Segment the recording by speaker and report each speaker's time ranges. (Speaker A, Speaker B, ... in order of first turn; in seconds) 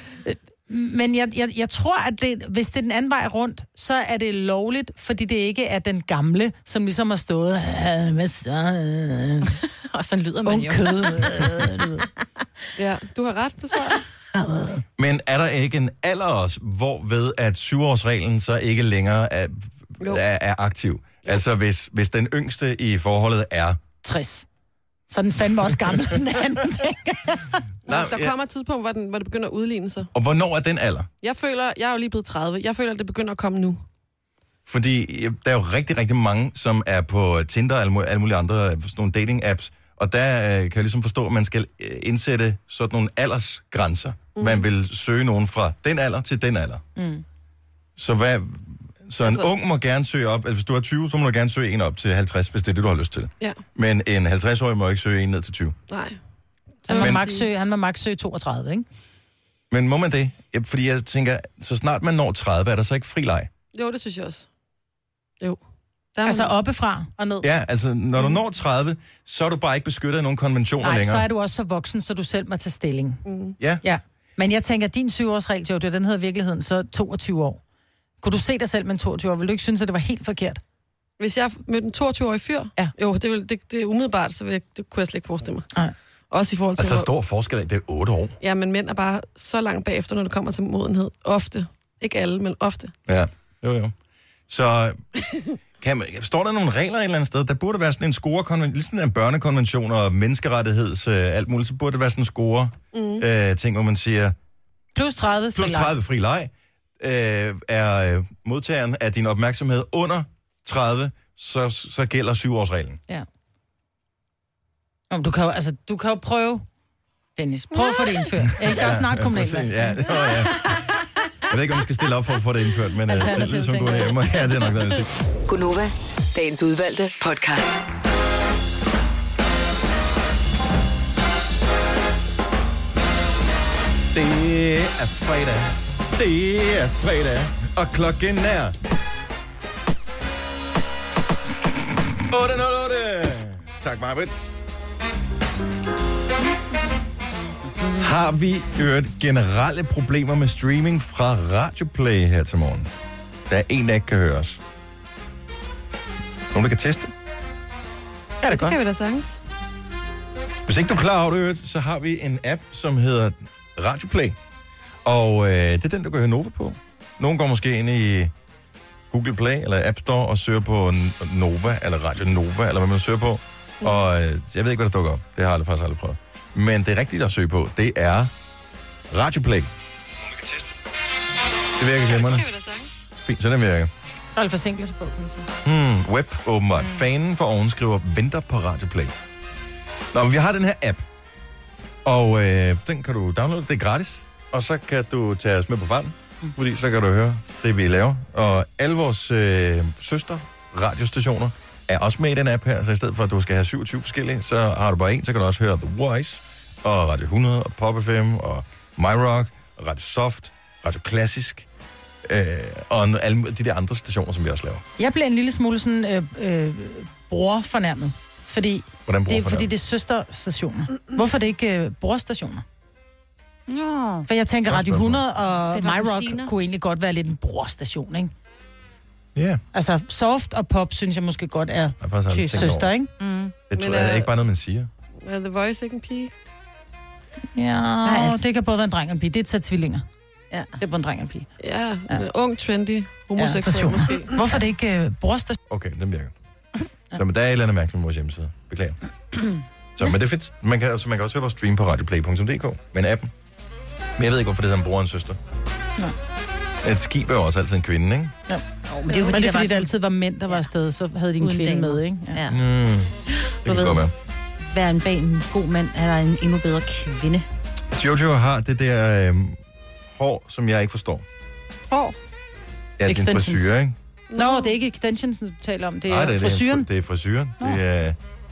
Speaker A: 0.2-9.6, 10.4-12.1, 14.3-14.8, 24.0-24.5, 25.1-27.6, 47.0-47.2, 56.9-58.9, 66.2-67.5, 70.8-73.2, 73.8-77.6, 78.2-80.6, 104.9-105.9, 115.1-116.7, 117.3-120.0, 123.1-124.2, 158.4-158.8, 184.3-185.5, 215.0-222.6, 224.3-228.3, 229.7-233.1, 237.5-240.0, 240.8-241.5, 243.4-245.6, 258.5-262.4, 273.1-273.7, 274.4-276.9
Speaker B: 9.8-12.1, 223.7-224.3, 225.5-226.5, 232.5-233.5, 238.0-238.4, 258.9-259.9, 261.4-262.6, 263.3-264.0, 264.7-267.5
Speaker C: 12.8-14.1, 27.9-30.1, 31.2-33.8, 44.4-44.6, 55.9-56.2, 56.9-57.5, 63.7-64.5, 66.2-66.5, 73.2-73.6, 81.2-85.7, 86.3-87.1, 88.4-92.9, 102.9-103.2, 117.8-118.0, 158.5-159.4, 182.0-183.0, 233.8-234.3, 235.2-236.3, 241.6-244.4, 271.9-272.1, 274.3-274.7
Speaker D: 15.0-23.8, 27.9-28.4, 30.1-31.1, 34.6-46.8, 48.0-55.8, 57.0-57.2, 59.7-63.5, 67.4-71.2, 86.8-88.4, 93.1-93.9, 94.5-95.0, 95.8-104.3, 105.5-113.0, 118.5-120.8, 121.5-125.1, 134.1-138.8, 142.3-144.5, 148.0-152.9, 153.5-154.6, 156.5-157.1, 160.7-164.4, 165.0-168.3, 169.1-178.3, 179.1-179.7, 181.8-182.5, 183.2-183.9, 185.6-189.1, 190.1-191.0, 192.0-211.7, 212.2-214.8, 219.1-219.7, 224.7-225.2, 229.3-229.6, 232.0-232.9, 233.7-234.9, 245.7-246.3, 247.1-249.0, 250.0-253.3, 254.2-255.4, 256.8-258.4, 262.5-264.1, 267.9-269.6, 270.1-271.2, 273.0-273.9, 276.1-278.2
Speaker E: 125.5-127.8